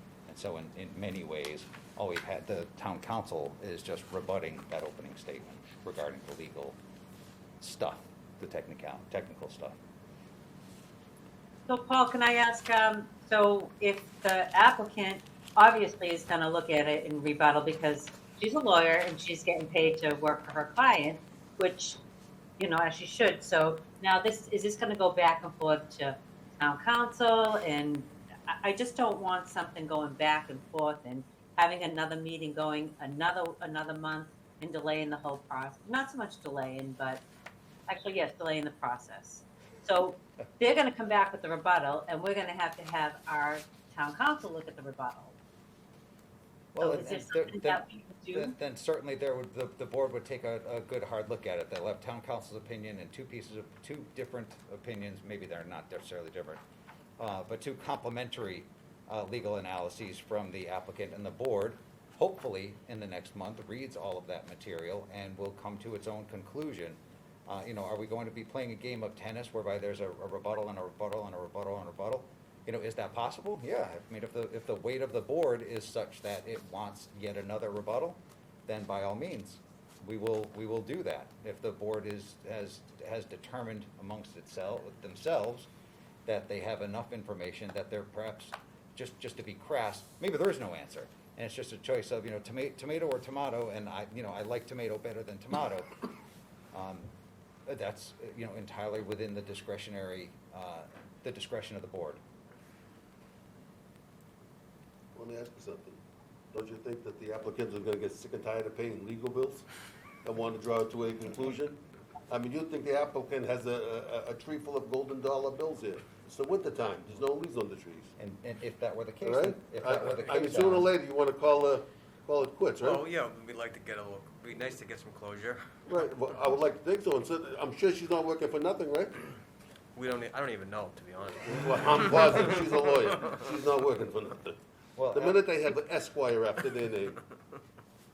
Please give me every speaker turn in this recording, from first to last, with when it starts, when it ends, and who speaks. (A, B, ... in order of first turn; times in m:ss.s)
0:00.3-0:06.8 A
0:07.6-0:09.8 A
0:11.7-0:22.0 B
0:22.6-0:37.2 B
0:37.9-0:45.3 B
0:46.7-0:56.6 A
0:46.8-0:48.5 B
0:57.2-1:25.7 A
1:26.2-1:35.9 A
1:36.7-1:37.1 A
1:37.7-1:42.2 A
1:45.1-1:46.0 C
1:46.5-1:49.6 C
1:50.2-1:58.1 C
1:58.2-2:00.9 A
1:59.2-2:03.0 C
2:02.8-2:05.6 D
2:05.9-2:09.2 C
2:10.0-2:11.4 D
2:11.4-2:14.6 C
2:15.0-2:15.4 A
2:15.1-2:17.2 C